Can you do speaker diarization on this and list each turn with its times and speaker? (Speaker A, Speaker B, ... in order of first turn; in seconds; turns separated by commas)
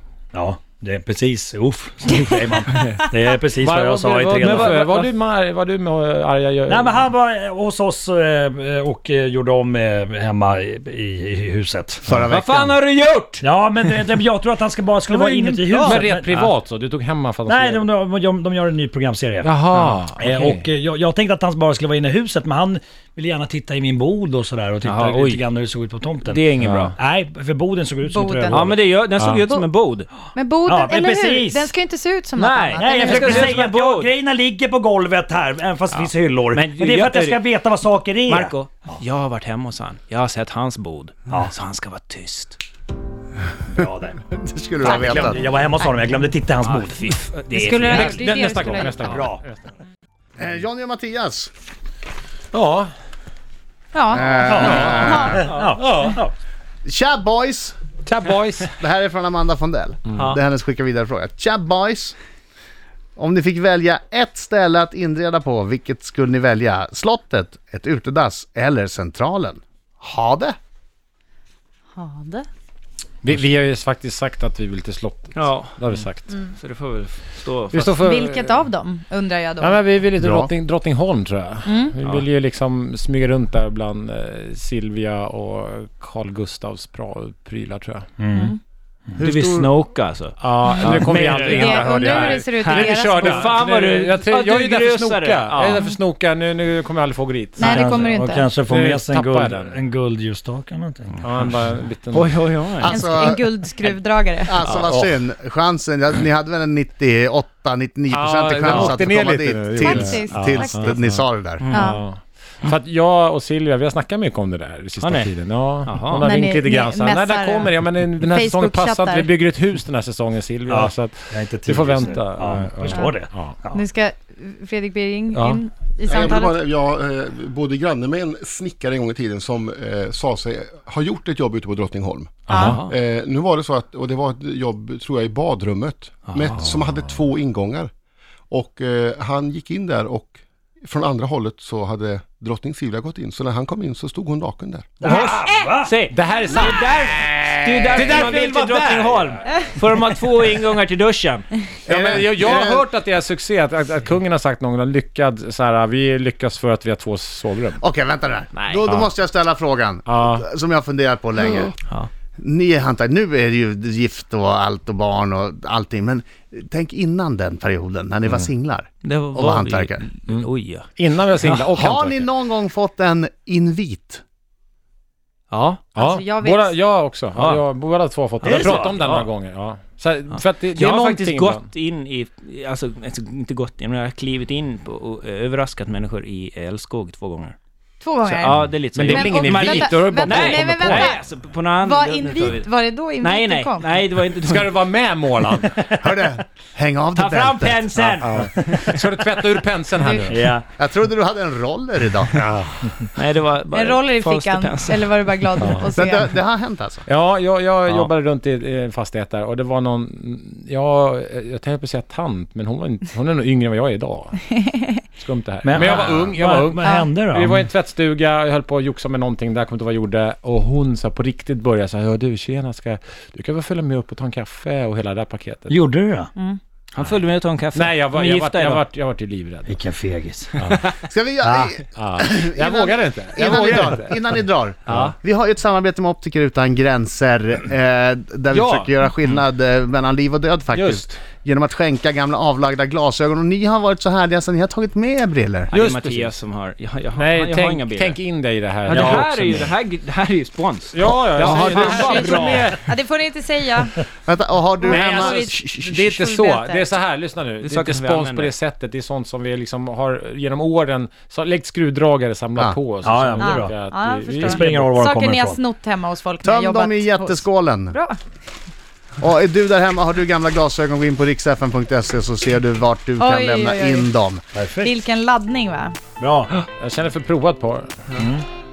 Speaker A: 0.3-5.1, Speaker B: 2.5-3.1, Speaker C: 3.6-7.1, Speaker A: 6.7-12.1, Speaker D: 12.1-12.8, Speaker E: 12.3-13.8, Speaker A: 13.4-16.6, Speaker C: 15.1-17.9, Speaker A: 17.5-26.4, Speaker C: 19.4-20.7, Speaker E: 24.8-25.4, Speaker E: 26.2-26.9, Speaker A: 27.0-28.9, Speaker B: 28.1-28.7, Speaker E: 28.5-30.1, Speaker C: 29.2-29.4, Speaker B: 30.4-33.5, Speaker A: 30.7-31.7, Speaker E: 32.4-34.1, Speaker A: 32.8-38.6, Speaker E: 35.9-37.5, Speaker E: 38.3-42.6, Speaker A: 43.8-44.3, Speaker D: 44.3-45.5, Speaker A: 44.8-47.1, Speaker E: 46.6-48.3, Speaker B: 47.5-49.2, Speaker C: 47.8-49.7, Speaker A: 49.1-49.4, Speaker D: 50.4-51.5, Speaker C: 52.5-52.9, Speaker B: 53.9-55.5, Speaker D: 54.1-55.3, Speaker A: 54.4-56.3, Speaker C: 54.6-55.2, Speaker E: 55.4-55.7, Speaker C: 55.7-56.2, Speaker D: 56.9-57.7, Speaker C: 58.0-58.7, Speaker D: 58.8-62.1, Speaker D: 63.2-70.6, Speaker B: 72.0-72.5, Speaker C: 73.2-76.3, Speaker E: 75.3-76.0, Speaker B: 76.3-76.5, Speaker E: 76.6-78.0, Speaker C: 77.7-78.6, Speaker B: 78.0-79.8, Speaker C: 79.6-88.1, Speaker D: 80.2-80.5, Speaker B: 81.7-82.0, Speaker A: 88.2-88.5, Speaker B: 88.3-88.6, Speaker E: 89.2-95.8, Speaker C: 89.2-89.6, Speaker C: 90.4-98.0, Speaker B: 90.7-93.5, Speaker B: 95.7-96.0, Speaker B: 97.6-98.5, Speaker A: 97.7-101.2, Speaker C: 98.6-99.8, Speaker C: 101.2-102.3, Speaker E: 102.1-103.0, Speaker D: 102.8-103.5, Speaker B: 102.9-104.6, Speaker D: 104.5-111.7, Speaker C: 104.6-105.2, Speaker C: 108.1-123.6, Speaker B: 108.8-109.1, Speaker B: 109.7-111.0, Speaker E: 111.6-111.8, Speaker B: 111.7-112.0, Speaker E: 115.0-115.3, Speaker E: 115.8-116.3, Speaker B: 116.2-119.3, Speaker A: 120.7-123.8, Speaker B: 122.9-126.6, Speaker C: 125.3-125.6, Speaker F: 126.1-137.9, Speaker B: 132.5-132.8, Speaker C: 132.5-132.8, Speaker E: 132.6-132.9, Speaker E: 136.3-136.7, Speaker F: 138.5-145.1, Speaker A: 145.0-145.9, Speaker E: 145.0-151.5, Speaker C: 145.1-149.6, Speaker D: 151.9-152.8, Speaker C: 151.9-157.8, Speaker D: 157.8-161.7, Speaker E: 158.5-158.8, Speaker C: 158.8-159.1, Speaker C: 160.1-160.4, Speaker E: 161.4-162.1, Speaker D: 162.4-170.1, Speaker E: 169.0-170.9, Speaker C: 170.3-172.3, Speaker D: 171.8-174.2, Speaker E: 175.5-175.9, Speaker C: 175.9-181.7, Speaker B: 176.0-176.8, Speaker E: 177.3-177.6, Speaker E: 178.4-179.3, Speaker E: 180.3-187.6, Speaker B: 188.0-191.2, Speaker E: 188.3-192.7, Speaker C: 188.7-191.1, Speaker B: 191.8-194.0, Speaker E: 193.2-194.9, Speaker C: 194.4-195.8, Speaker A: 195.6-196.0, Speaker D: 196.0-198.2, Speaker E: 197.2-198.8, Speaker C: 198.2-200.6, Speaker B: 200.0-200.4, Speaker A: 200.3-200.7, Speaker D: 200.8-202.3, Speaker C: 202.3-202.9, Speaker E: 203.2-205.6, Speaker B: 203.7-206.3, Speaker C: 205.6-205.9, Speaker D: 205.9-207.1, Speaker C: 207.1-214.5, Speaker E: 207.9-208.1, Speaker C: 215.2-225.8, Speaker A: 215.6-217.6, Speaker B: 216.8-217.1, Speaker A: 225.7-226.3, Speaker E: 226.9-228.8, Speaker C: 227.7-229.8, Speaker A: 229.7-230.5, Speaker D: 231.1-245.7, Speaker C: 231.4-234.2, Speaker C: 234.9-235.1, Speaker E: 234.9-235.1, Speaker C: 238.5-238.9, Speaker C: 240.7-241.2, Speaker E: 245.7-248.2, Speaker C: 245.7-246.3, Speaker C: 247.2-249.7, Speaker E: 248.9-252.7, Speaker A: 249.0-249.3, Speaker C: 250.9-252.8, Speaker B: 251.6-254.0, Speaker D: 254.3-256.1, Speaker B: 254.8-256.9, Speaker C: 254.9-265.0, Speaker E: 257.6-258.6, Speaker A: 263.0-263.7, Speaker B: 263.4-268.2, Speaker A: 264.4-265.6, Speaker D: 266.4-268.0, Speaker D: 269.2-274.4, Speaker B: 273.2-274.1, Speaker A: 274.6-275.0, Speaker B: 274.8-276.0, Speaker A: 276.2-276.5, Speaker C: 276.8-277.9, Speaker A: 278.2-278.4